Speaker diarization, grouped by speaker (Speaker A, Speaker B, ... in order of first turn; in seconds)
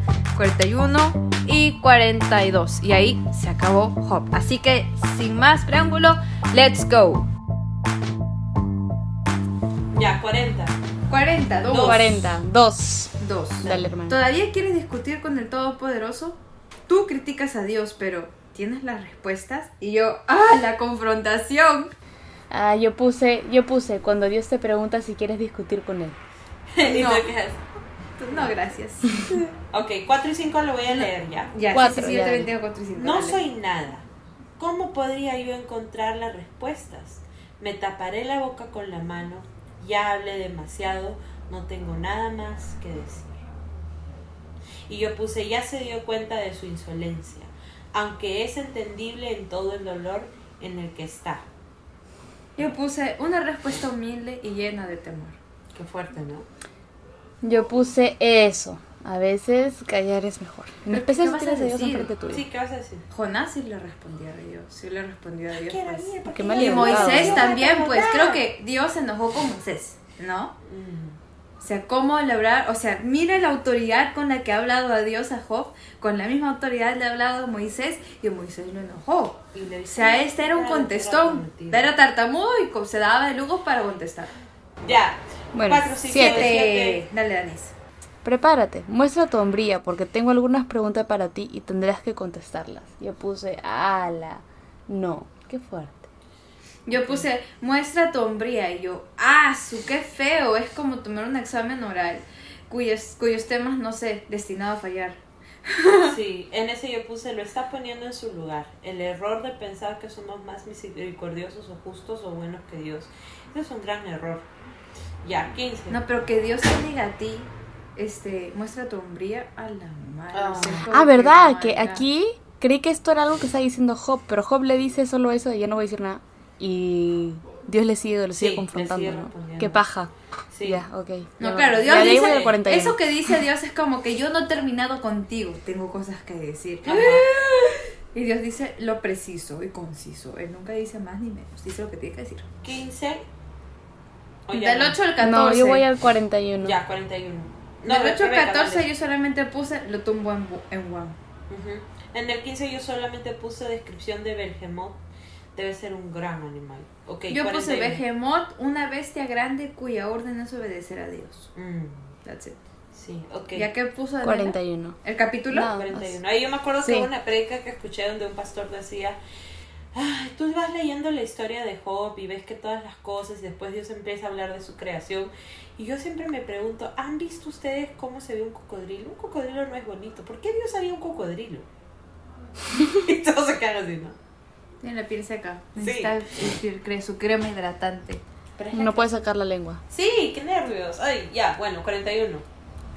Speaker A: 0.3-7.3, 11.1-12.2, 13.2-21.9, 26.8-27.3, 28.2-29.5, 30.9-33.4, 52.6-55.4, 60.9-62.1, 63.1-70.5, 71.6-84.3, 86.2-87.8, 96.9-106.2, 115.9-122.1, 131.4-142.5, 144.5-145.9, 147.9-151.2, 157.3-161.5, 162.2-162.6, 163.5-165.7, 184.8-188.2
Speaker B: 9.9-10.7, 11.7-12.1, 26.7-27.6, 29.7-31.8, 33.0-34.0, 34.6-43.4, 44.9-51.5, 55.8-56.5, 62.3-63.0, 65.5-68.4, 70.7-71.2, 79.5-81.9, 84.8-87.0, 96.9-97.2, 106.0-114.5, 115.2-116.0, 120.3-120.9, 128.3-129.8, 130.5-130.9, 131.8-132.6, 136.8-137.3, 142.6-143.2, 144.5-145.0, 146.6-148.9, 151.5-155.0, 155.6-158.0, 161.6-162.0, 162.9-163.7, 165.7-169.2, 169.9-181.7, 182.7-184.2, 185.8-186.2, 188.6-189.2, 189.9-192.4
Speaker C: 11.8-14.2, 22.5-26.2, 31.7-32.5, 57.4-62.5, 66.2-67.5, 85.5-86.6, 88.2-96.1, 120.9-130.1, 130.6-133.3, 145.2-146.8, 164.2-165.0, 165.5-166.2, 166.8-167.1, 188.7-189.8